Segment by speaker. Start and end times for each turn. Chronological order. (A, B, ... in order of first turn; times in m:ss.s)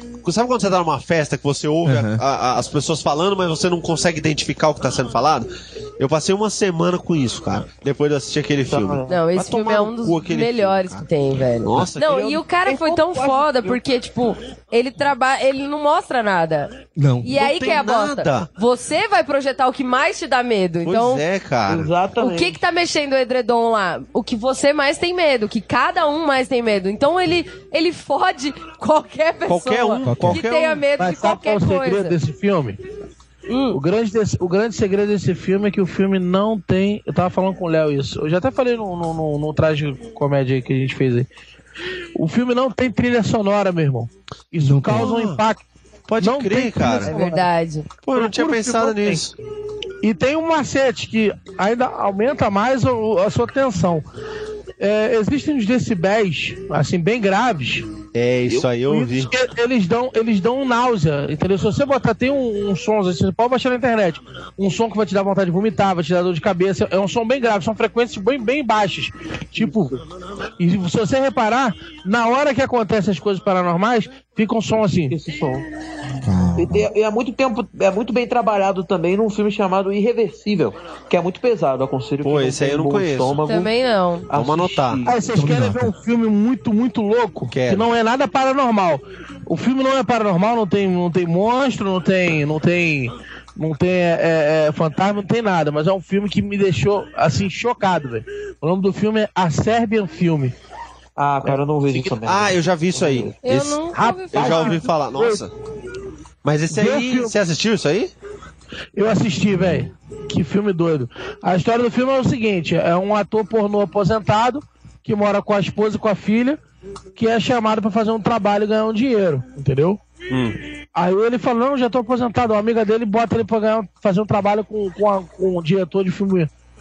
0:00.2-0:05.5 A
0:01.8-0:02.2 B
0:06.0-0:11.0 A
0:08.7-0:09.9 C
0:09.1-0:21.2 D
0:11.6-0:12.2 A
0:12.0-0:13.8 C
0:17.0-0:17.3 B
0:17.3-0:18.5 A
0:20.8-0:21.9 A
0:21.7-0:22.6 C
0:22.2-0:32.2 D
0:29.5-0:30.8 A
0:30.0-0:30.4 B
0:31.0-0:32.8 E
0:33.5-0:33.8 D
0:33.7-0:41.3 E
0:42.2-0:45.6 E
0:44.6-0:45.1 B
0:44.9-0:45.4 A
0:46.1-0:47.1 A
0:46.2-0:47.5 E
0:47.1-0:47.9 D
0:48.0-0:49.4 A
0:48.2-0:49.3 E
0:50.0-0:54.0 E
0:54.8-0:57.9 E
0:58.2-0:59.3 A
0:58.5-1:10.0 E
1:10.6-1:15.2 E
1:15.1-1:15.6 C
1:16.2-1:16.9 B
1:16.6-1:23.7 C
1:22.2-1:23.4 A
1:23.5-1:24.3 D
1:24.3-1:25.2 C
1:24.3-1:25.0 A
1:25.0-1:40.6 E
1:25.4-1:25.9 B
1:27.5-1:27.9 A
1:41.2-1:43.4 C
1:41.9-1:45.5 A
1:43.4-1:44.8 D
1:44.0-1:45.4 E
1:46.4-1:48.1 A
1:46.7-1:47.4 E
1:49.0-1:56.6 E
1:57.2-2:00.0 E
2:00.3-2:00.6 A
2:01.0-2:06.5 E